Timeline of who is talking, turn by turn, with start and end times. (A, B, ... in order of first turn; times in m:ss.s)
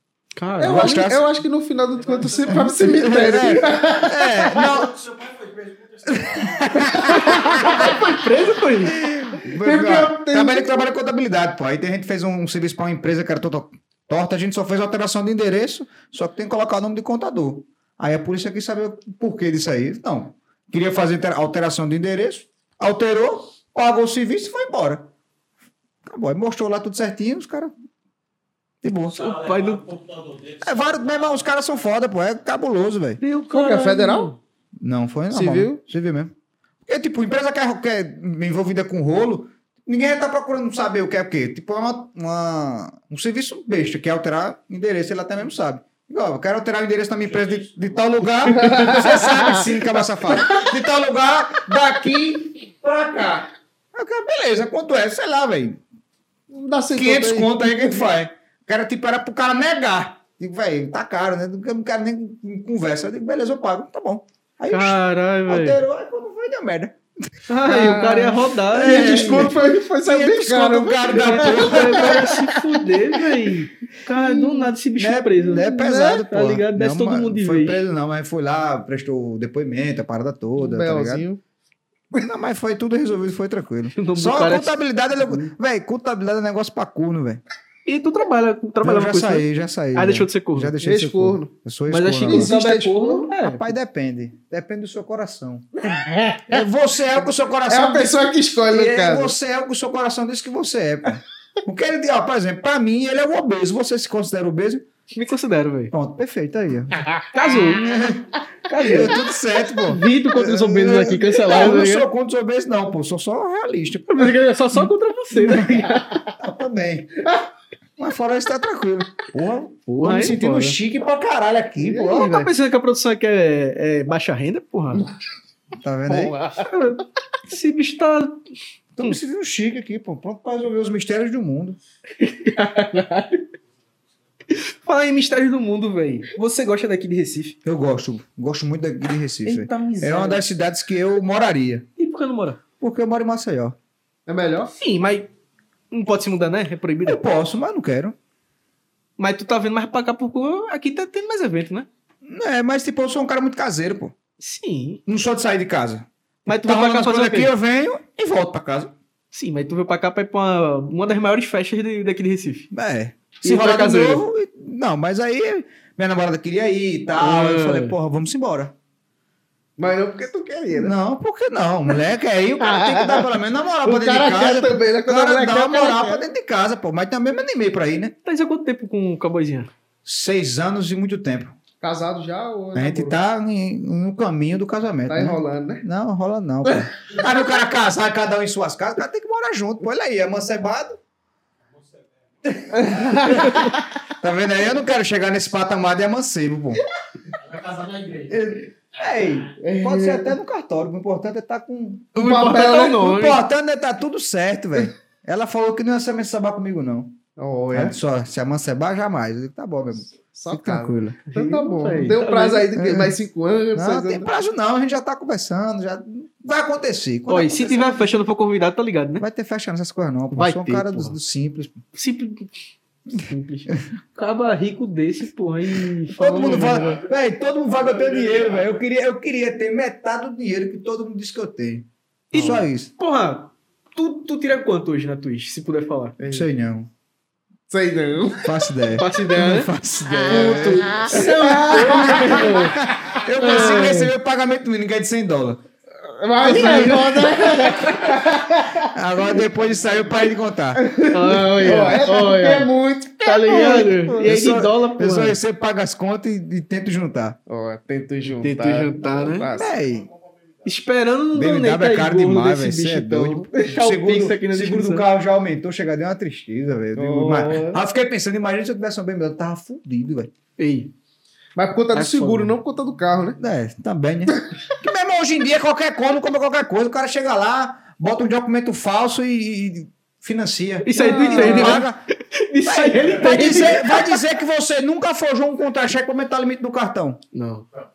0:00.4-0:01.1 A
0:00.6-0:04.9 B
0:00.6-0:01.3 C
0:02.5-0:05.0 C
0:04.9-0:06.3 D
0:06.0-0:07.9 C
0:07.0-0:08.0 B
0:07.3-0:09.0 A
0:08.8-0:25.1 C
0:09.4-0:10.9 B
0:26.1-0:27.7 C
0:28.8-0:29.2 C
0:29.2-0:29.9 A
0:29.2-0:31.1 D
0:30.6-0:33.2 C
0:33.2-0:34.4 A
0:33.5-0:34.3 B
0:34.8-0:36.3 C
0:35.3-0:35.8 B
0:36.9-0:55.8 C
0:48.5-0:49.6 B
0:56.5-0:58.0 B
0:56.9-1:07.0 C
1:04.7-1:05.8 A
1:07.5-1:09.5 A
1:07.6-1:12.6 B
1:08.7-1:12.5 C
1:11.1-1:17.8 A
1:14.1-1:14.7 B
1:15.0-1:21.2 C
1:15.5-1:16.1 B
1:20.6-1:21.4 B
1:22.1-1:27.4 C
1:24.0-1:24.8 A
1:27.9-1:30.7 A
1:28.8-1:32.5 C
1:30.8-1:31.5 B
1:31.9-1:33.7 A
1:32.2-1:33.3 B
1:33.4-1:35.9 C
1:35.8-1:36.6 B
1:36.5-1:44.8 C
1:37.7-1:39.4 B
1:45.1-1:45.9 A
1:45.9-1:57.2 C
1:47.3-1:47.9 A
1:48.7-1:49.2 A
1:49.8-1:52.1 A
1:54.1-1:56.3 A
1:58.0-2:02.5 C
1:59.9-2:00.8 A
2:01.8-2:02.4 B
2:02.1-2:05.1 A
2:05.8-2:06.4 C
2:06.1-2:06.7 B
2:06.5-2:08.4 A
2:09.0-2:11.8 C
2:12.2-2:13.5 A
2:14.5-2:17.6 A
2:17.6-2:21.9 C
2:19.4-2:20.4 A
2:22.0-2:22.6 A
2:22.8-2:23.8 C
2:24.3-2:24.7 B
2:24.8-2:25.3 A
2:25.9-2:27.2 A
2:27.0-2:28.2 C
2:29.2-2:31.9 A
2:32.3-2:34.1 C
2:34.4-2:35.0 A
2:35.1-2:38.9 C
2:36.5-2:37.5 A
2:39.3-2:42.7 A
2:42.7-2:48.7 C
2:43.4-2:44.3 A
2:47.2-2:48.0 A
2:49.8-2:50.9 B
2:50.7-2:58.2 C
2:52.6-2:53.3 B
2:53.8-2:56.2 B
2:58.2-2:59.7 A
3:00.0-3:01.6 C
3:01.8-3:03.2 B
3:02.8-3:11.0 C
3:05.1-3:05.8 B
3:12.7-3:13.8 B
3:13.0-3:13.7 C
3:14.2-3:16.8 C
3:17.4-3:18.3 D
3:18.3-3:27.2 C
3:19.6-3:20.4 B
3:22.2-3:23.4 A
3:22.2-3:23.0 B
3:27.4-3:28.0 B
3:27.7-3:31.3 C
3:30.3-3:34.3 B
3:31.3-3:32.7 A
3:32.7-3:33.2 C
3:33.8-3:38.1 C
3:37.3-3:39.2 A
3:39.2-3:41.8 C
3:40.3-3:41.2 A
3:41.9-3:42.6 A
3:43.1-3:47.0 A
3:46.2-3:52.9 C
3:46.2-3:47.0 B
3:52.3-3:56.2 A
3:52.4-3:52.6 B
3:56.2-3:56.5 B
3:56.3-3:56.9 C
3:57.7-3:58.5 B
3:58.4-4:05.6 C
3:59.0-3:59.7 A
4:00.3-4:03.9 B
4:00.3-4:02.8 A
4:03.4-4:04.1 A
4:06.0-4:08.9 B
4:06.4-4:07.6 A
4:06.5-4:07.2 C
4:08.9-4:10.8 C
4:10.8-4:14.2 B
4:11.1-4:12.7 A
4:13.2-4:15.4 A
4:14.2-4:17.4 C
4:17.5-4:19.8 B
4:18.4-4:19.5 A
4:19.6-4:20.1 C
4:20.6-4:25.1 A
4:21.3-4:30.3 C
4:27.0-4:27.8 B
4:30.6-4:30.9 A
4:31.6-4:33.4 B
4:31.9-4:32.5 A
4:33.4-4:42.0 C
4:40.8-4:44.2 A
4:41.0-4:41.8 B
4:42.6-4:47.2 C
4:47.3-4:47.7 A